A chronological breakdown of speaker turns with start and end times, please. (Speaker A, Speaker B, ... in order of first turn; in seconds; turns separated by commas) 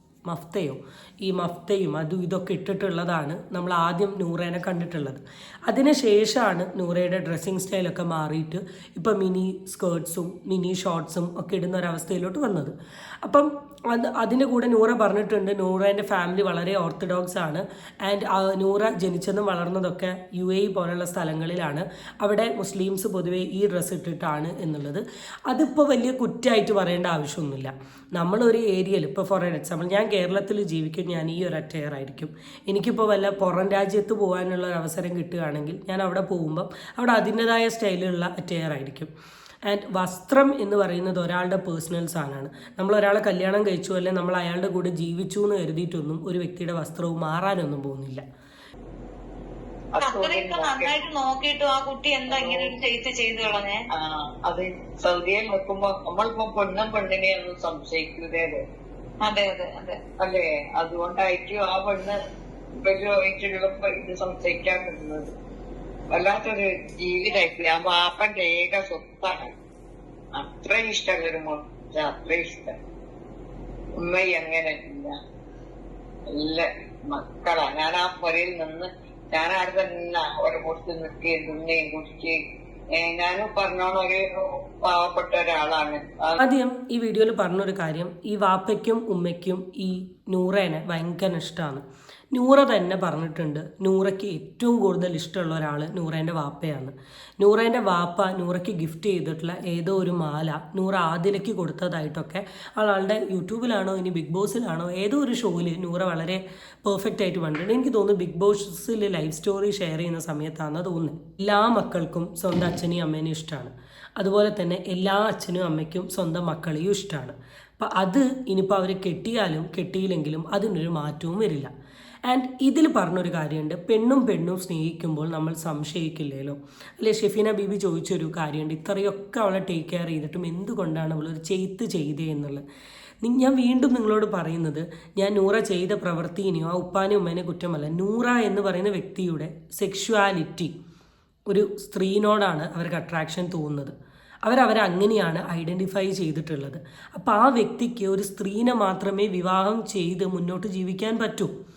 Speaker A: 0.2-39.1, Speaker A: 39.7-48.2, Speaker B: 49.9-51.0, Speaker C: 50.0-53.8, Speaker B: 52.3-52.7, Speaker B: 53.9-58.6, Speaker C: 59.2-60.0, Speaker B: 60.2-62.1, Speaker B: 62.8-65.3, Speaker B: 66.1-69.5, Speaker B: 70.3-72.8, Speaker B: 74.0-75.1, Speaker B: 76.3-82.4, Speaker B: 82.9-84.2, Speaker B: 84.8-86.4, Speaker A: 86.4-91.8, Speaker A: 92.3-121.7, Speaker A: 122.2-132.6, Speaker A: 133.2-140.7, Speaker A: 141.5-143.9, Speaker A: 144.4-151.5